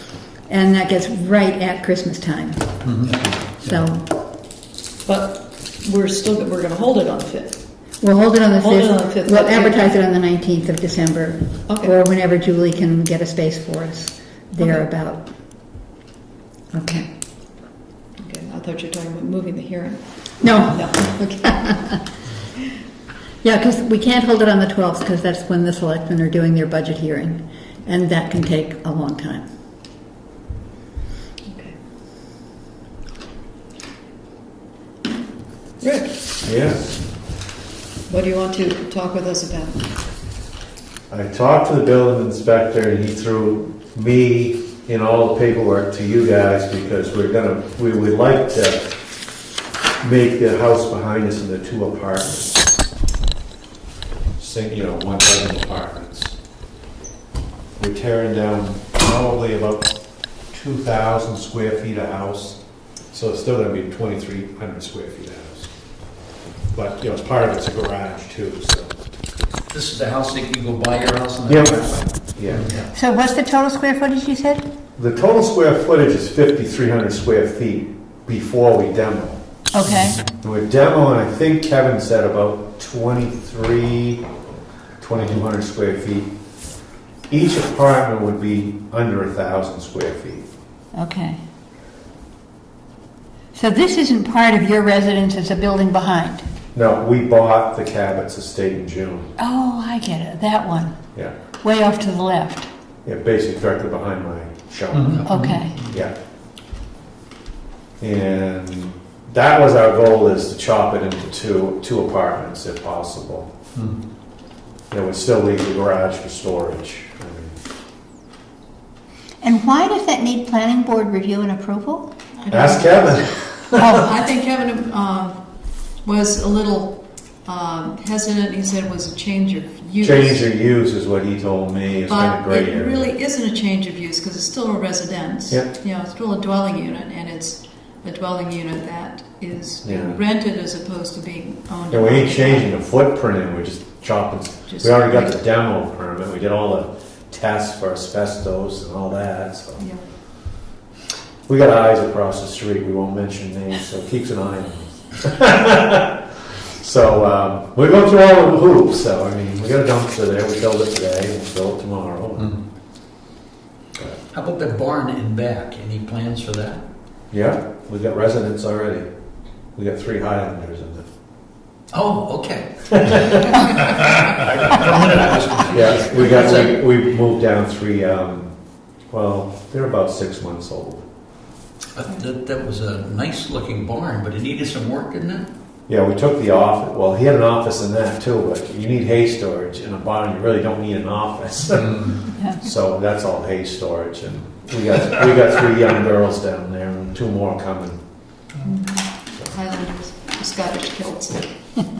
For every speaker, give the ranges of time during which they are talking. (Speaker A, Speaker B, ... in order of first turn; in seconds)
Speaker A: 0.5-2.8, 3.6-4.1, 8.0-15.3, 16.7-17.1, 20.4-22.1, 23.4-29.5, 72.9-74.7, 79.7-80.2, 91.0-91.4, 93.5-96.5, 99.4-101.0, 101.6-102.7, 105.3-105.8, 119.4-122.1, 123.8-124.0, 192.4-192.6
Speaker B: 2.9-3.7, 69.7-72.9, 104.9-106.0, 164.3-166.8, 171.9-176.8, 181.9-185.5
Speaker C: 5.0-7.6, 8.6-9.9, 11.7-11.9, 18.2-21.0, 31.5-31.8, 35.8-36.3, 38.1-40.0, 122.4-125.4, 126.0-130.4, 132.1-142.7, 144.7-145.3, 198.6-201.5
Speaker D: 36.4-36.8, 41.1-48.9, 50.0-52.6, 54.4-56.4, 57.8-59.9, 60.5-62.6, 63.1-65.7, 66.7-68.9, 71.5-72.7, 75.0-79.4, 80.4-84.2, 85.0-86.3, 87.3-90.5, 96.7-99.3, 103.0-105.3, 105.9-106.2, 108.0-113.5, 114.9-117.6, 122.5-124.0, 130.0-133.1, 139.8-140.2, 141.9-149.8, 151.5-162.6, 167.3-169.1, 169.8-171.1, 172.9-173.7, 175.7-178.5, 179.1-181.0, 185.9-198.0